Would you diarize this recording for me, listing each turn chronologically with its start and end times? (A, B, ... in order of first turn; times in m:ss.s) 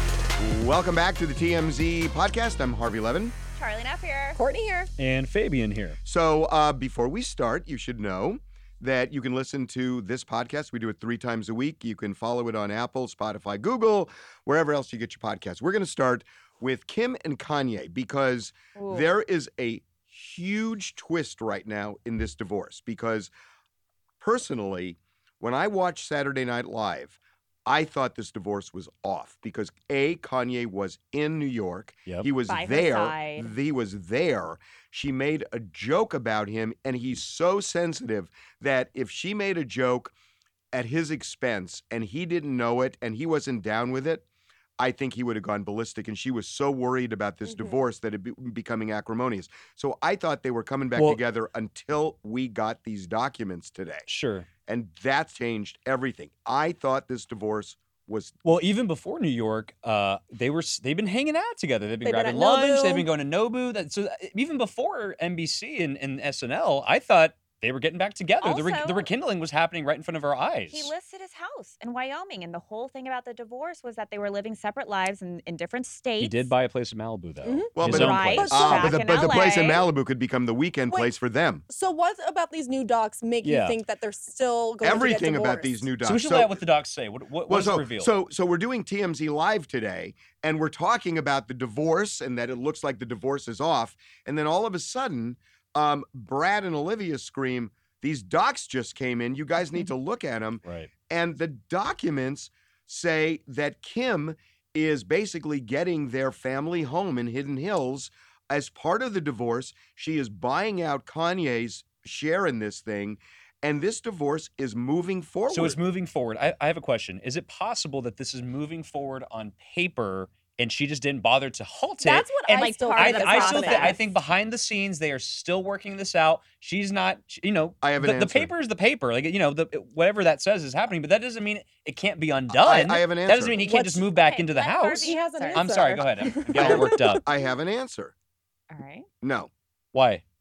0:00.4-0:03.3 A
0:03.6-0:04.4 B
0:04.4-0:04.9 C
0:05.0-0:06.0 D
0:06.0-0:23.3 A
0:18.8-0:19.1 B
0:24.2-0:40.1 A
0:32.5-0:33.5 B
0:40.7-0:44.2 A
0:44.8-0:54.1 A
0:54.1-0:54.5 D
0:54.7-0:58.4 A
0:58.4-1:10.9 D
1:02.0-1:03.1 C
1:08.4-1:09.1 B
1:10.7-1:16.5 B
1:16.2-1:18.5 D
1:17.4-1:17.7 C
1:17.8-1:21.6 A
1:17.8-1:19.8 B
1:18.4-1:19.0 C
1:21.7-1:25.9 C
1:23.4-1:23.8 D
1:24.8-1:26.6 A
1:26.0-1:28.1 D
1:27.5-1:55.8 A
1:40.6-1:40.9 D
1:55.5-2:02.3 D
2:02.0-2:04.0 C
2:02.5-2:04.1 B
2:03.0-2:17.2 D
2:07.8-2:08.5 A
2:12.5-2:13.6 A
2:13.6-2:14.1 C
2:14.1-2:15.8 B
2:15.0-2:17.2 C
2:16.6-2:18.1 A
2:18.7-2:19.1 B
2:19.2-2:19.5 A
2:19.9-2:20.2 D